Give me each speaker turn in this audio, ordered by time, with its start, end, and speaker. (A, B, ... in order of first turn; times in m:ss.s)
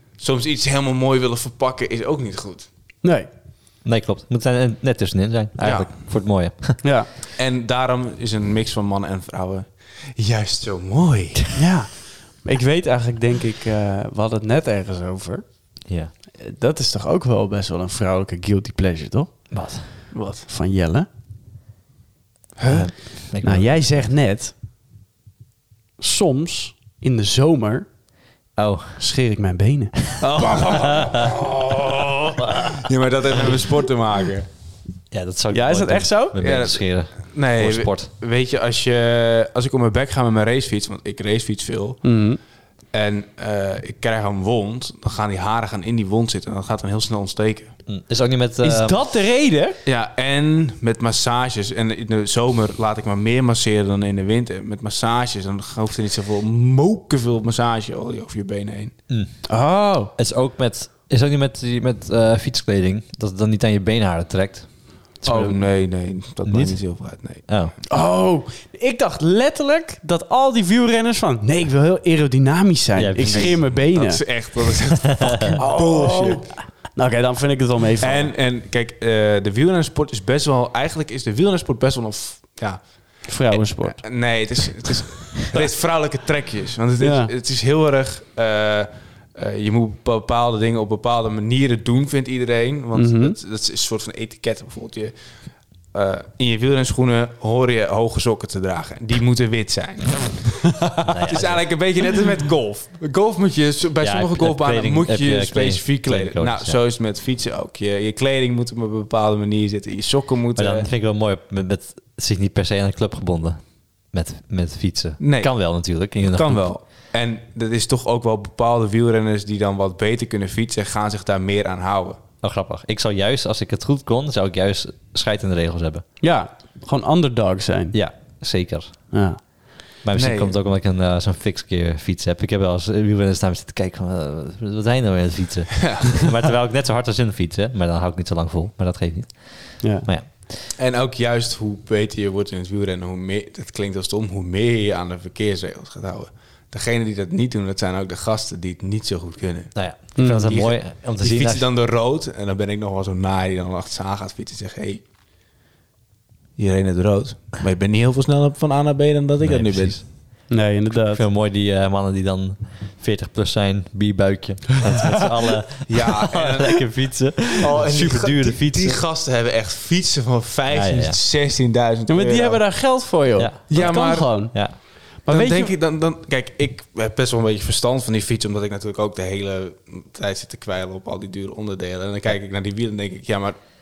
0:00.2-0:02.7 A
0:03.0-0:03.3 B
0:03.8-0:06.8 C
0:05.6-0:05.9 A
0:06.8-0:07.1 B
0:07.4-0:11.5 A
0:11.5-0:15.7 B
0:15.9-0:16.1 C
0:16.4-0:21.1 B
0:19.5-0:19.9 C
0:20.1-0:20.5 A
0:22.6-0:24.5 B
0:22.7-0:24.1 C
0:26.0-0:27.9 B
0:28.6-0:29.0 C
0:29.0-0:31.2 B
0:30.2-0:34.5 A
0:32.0-0:32.4 B
0:35.1-0:38.1 C
0:35.5-0:36.4 B
0:36.4-0:42.0 A
0:42.0-0:42.4 B
0:42.9-0:47.7 A
0:47.9-0:49.0 C
0:48.6-0:49.8 B
0:49.9-0:58.9 A
0:59.1-0:59.4 C
0:59.4-1:00.1 B
1:00.2-1:05.5 C
1:05.2-1:07.4 A
1:06.4-1:06.8 C
1:07.5-1:07.7 C
1:07.9-1:14.2 B
1:13.0-1:13.6 C
1:13.3-1:16.5 A
1:15.1-1:15.5 C
1:15.6-1:18.3 B
1:18.0-1:35.1 A
1:23.2-1:24.3 B
1:27.0-1:27.3 B
1:32.9-1:33.4 B
1:35.9-1:50.9 A
1:41.0-1:41.6 C
1:44.0-1:46.8 C
1:50.6-1:56.7 C
1:55.2-2:02.2 A
2:02.4-2:06.0 C
2:06.2-2:07.9 B
2:07.9-2:09.1 C
2:09.1-2:09.4 B
2:10.0-2:20.5 C
2:10.1-2:10.5 A
2:15.8-2:16.1 A
2:19.8-2:20.1 B
2:20.8-2:35.0 A
2:29.7-2:31.6 C
2:30.2-2:30.5 B
2:36.6-2:40.0 A
2:39.4-2:49.0 C
2:40.5-2:41.2 B
2:45.9-2:46.9 A
2:47.5-2:52.7 A
2:50.7-2:51.2 C
2:52.1-2:54.6 B
2:53.4-2:54.8 C
2:53.7-2:54.6 A
2:55.2-2:55.7 B
2:55.3-3:03.6 A